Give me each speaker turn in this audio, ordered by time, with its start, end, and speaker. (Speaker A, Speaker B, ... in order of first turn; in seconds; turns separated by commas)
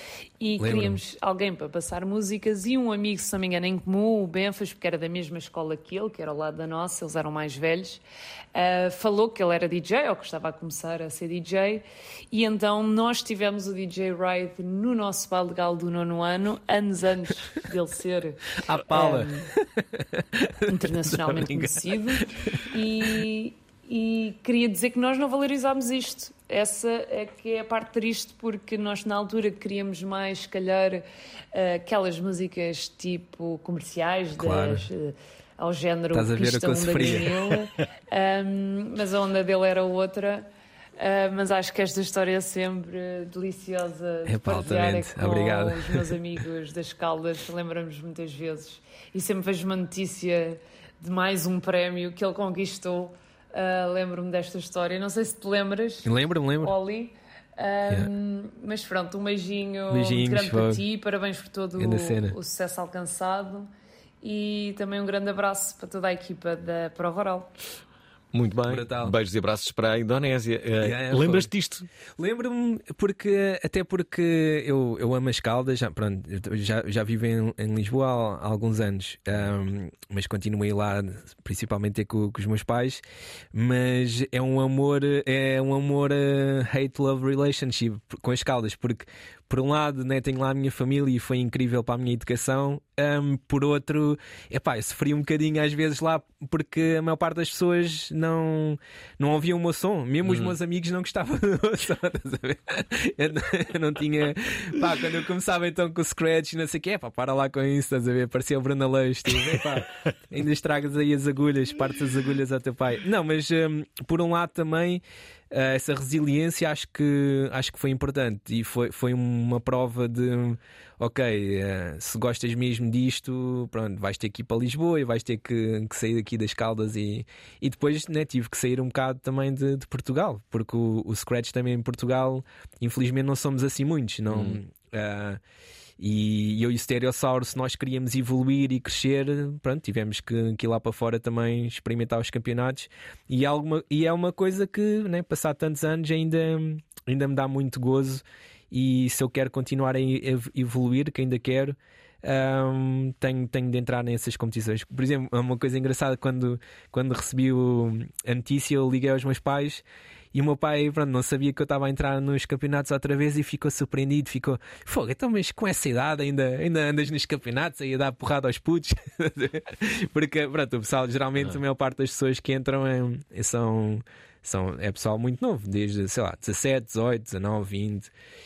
Speaker A: 0.4-8.0, Speaker B: 0.6-1.0, Speaker A: 8.5-19.5, Speaker B: 18.6-22.7, Speaker A: 20.7-63.7, Speaker B: 34.4-34.9, Speaker B: 36.1-37.4, Speaker B: 44.3-46.1, Speaker B: 56.0-56.7, Speaker B: 59.9-60.8, Speaker B: 61.8-62.4, Speaker A: 64.2-67.5, Speaker C: 68.3-71.9, Speaker B: 68.7-69.2, Speaker B: 70.8-71.5, Speaker B: 72.2-83.0, Speaker B: 83.5-135.4, Speaker C: 100.2-100.5, Speaker C: 134.3-134.6, Speaker B: 136.0-159.8, Speaker B: 160.3-178.1